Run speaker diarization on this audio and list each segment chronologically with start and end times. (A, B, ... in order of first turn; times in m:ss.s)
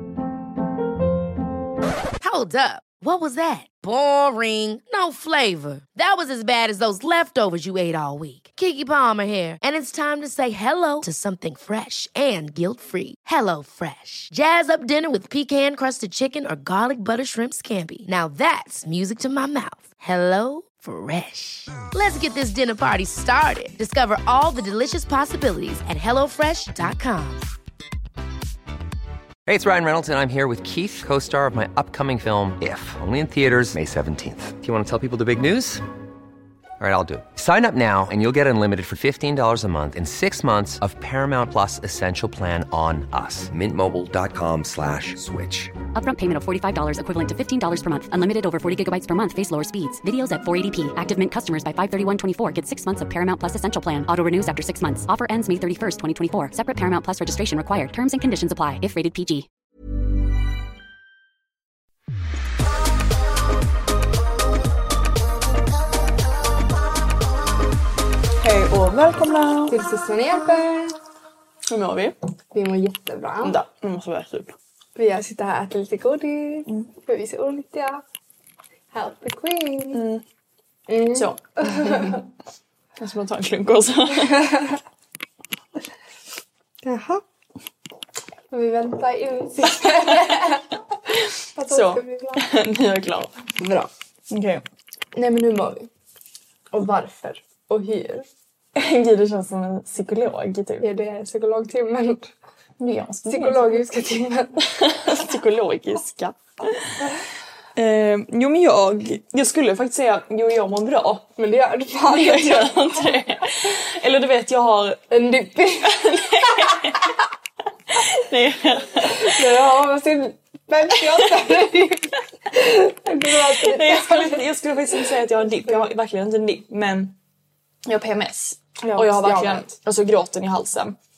0:02.2-0:27.5 A
0:29.4-0:35.8 B
0:36.8-0:45.7 B
0:45.9-0:59.5 C
1:08.4-1:09.8 D
1:09.7-1:11.0 E
1:11.7-1:12.2 D
1:12.5-1:13.6 E
1:13.4-1:14.5 D
1:15.0-1:18.0 E
1:18.9-1:20.0 E
1:19.9-1:20.2 D
1:20.9-1:22.2 E
1:21.1-1:22.2 D
1:23.0-1:24.6 D
1:26.8-1:27.2 E
1:28.5-1:30.8 E
1:31.5-1:32.4 E
1:31.7-1:33.4 D
1:33.6-1:33.9 E
1:34.3-1:34.6 D
1:35.1-1:35.9 E
1:36.7-1:38.3 E
1:38.7-1:40.9 D
1:40.8-1:42.3 E
1:42.8-1:43.8 D
1:43.3-1:44.7 E
1:44.7-1:47.1 D
1:47.8-1:51.3 D
1:51.4-1:53.2 E
1:52.0-1:55.0 D
1:55.1-1:56.9 E
1:55.9-1:57.1 D
1:57.9-1:59.4 D
1:59.0-2:05.0 E
2:03.6-2:07.1 D
2:07.8-2:10.9 D
2:08.8-2:09.7 E